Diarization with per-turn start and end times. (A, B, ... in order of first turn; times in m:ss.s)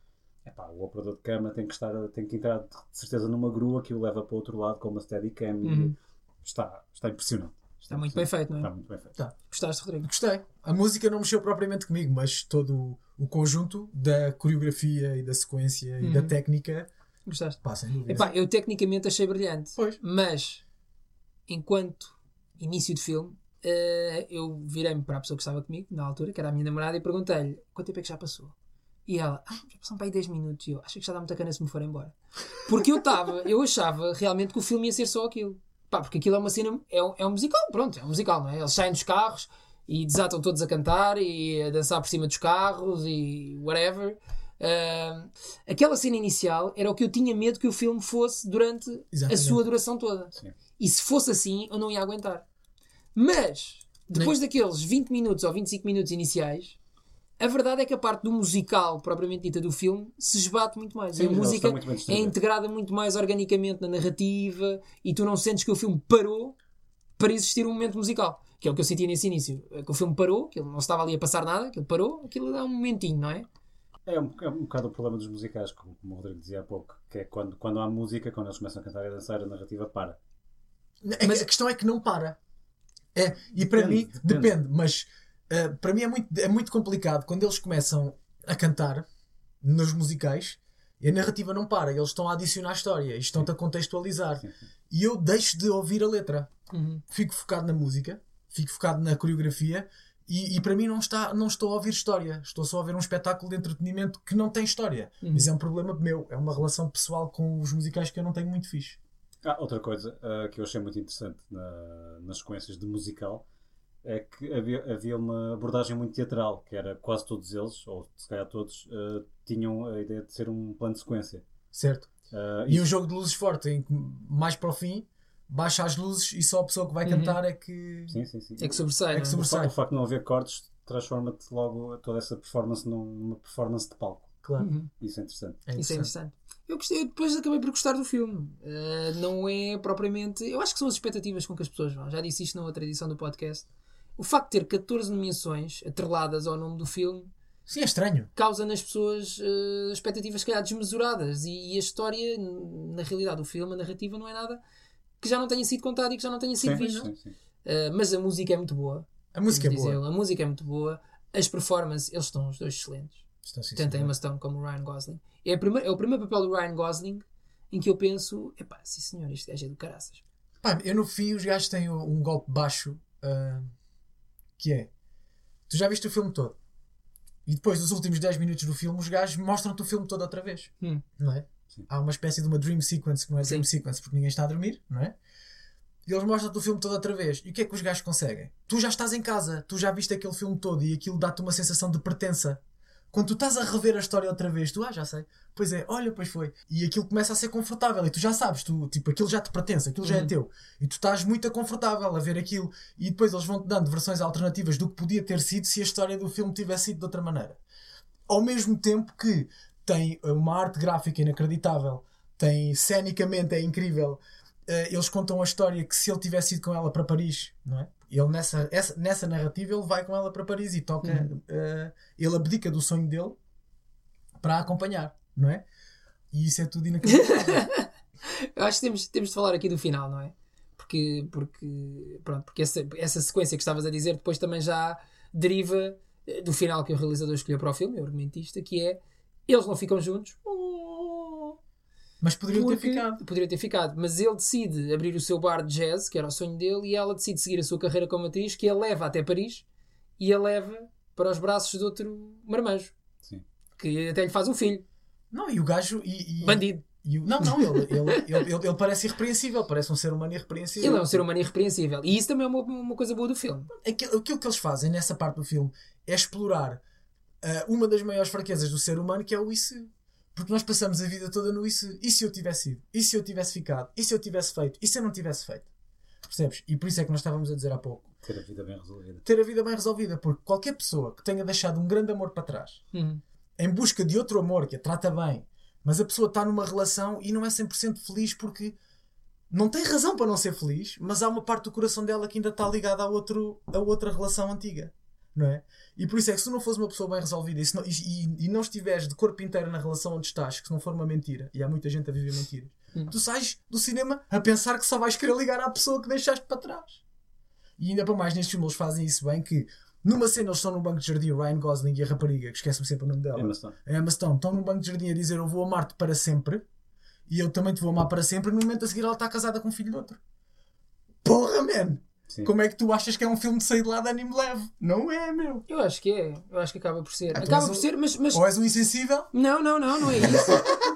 0:00.4-0:09.2 A
0:05.6-0:06.0 B
0:07.9-0:08.7 B
0:09.5-0:10.1 B
0:10.0-0:16.9 C
0:16.0-0:16.4 B
0:17.3-0:20.6 B
0:17.6-0:18.3 C
0:21.5-0:28.5 B
0:29.1-0:52.4 B
0:49.1-0:49.6 C
0:53.2-0:56.8 B
0:57.4-1:06.6 B
1:01.1-1:02.4 A
1:07.2-1:13.5 B
1:14.1-1:20.2 A
1:21.0-1:22.4 C
1:21.2-1:21.5 B
1:23.2-1:29.0 C
1:23.7-1:24.6 A
1:29.6-1:36.5 C
1:36.7-1:37.0 B
1:37.1-1:49.0 C
1:45.2-1:45.5 B
1:49.4-1:53.4 A
1:54.0-2:01.4 A
2:01.7-2:02.1 C
2:02.3-2:02.9 A
2:02.7-2:08.2 C
2:07.0-2:07.4 B
2:08.1-2:14.3 A
2:08.6-2:09.4 B
2:09.1-2:09.7 C
2:14.4-2:14.7 C
2:14.6-2:14.9 B
2:15.0-2:15.6 A
2:15.7-2:16.1 C
2:15.8-2:27.3 B
2:27.7-2:28.3 C
2:28.4-2:34.6 B
2:35.2-2:37.1 B
2:36.6-2:37.3 A
2:37.6-2:43.2 B
2:39.3-2:40.0 C
2:43.4-2:44.1 C
2:43.8-2:50.2 B
2:50.6-2:53.7 C
2:54.6-2:54.9 C
2:55.7-2:56.6 C
2:57.5-3:05.2 C
3:06.1-3:12.6 C
3:13.1-3:27.6 C
3:20.0-3:20.3 B
3:28.3-3:43.4 C
3:41.0-3:41.3 B
3:44.4-3:45.6 C
3:46.3-3:47.7 C
3:47.0-4:01.6 B
4:02.2-4:03.2 C
4:02.5-4:09.6 B
4:10.2-4:12.9 B
4:13.8-4:14.8 B
4:15.3-4:21.2 C
4:16.4-4:16.8 B
4:17.4-4:18.3 B
4:20.8-4:23.7 B
4:23.8-4:26.8 C
4:27.4-4:35.7 C
4:36.3-4:38.1 C
4:38.2-4:39.2 A
4:39.2-4:42.8 C
4:42.9-4:43.2 B
4:43.6-4:48.8 C
4:49.5-5:07.0 C
5:07.8-5:16.6 C
5:13.4-5:13.8 A
5:17.3-5:20.2 C
5:21.2-5:25.6 C
5:25.7-5:28.4 B
5:27.3-5:29.3 C
5:29.3-5:30.8 B
5:30.3-5:30.6 C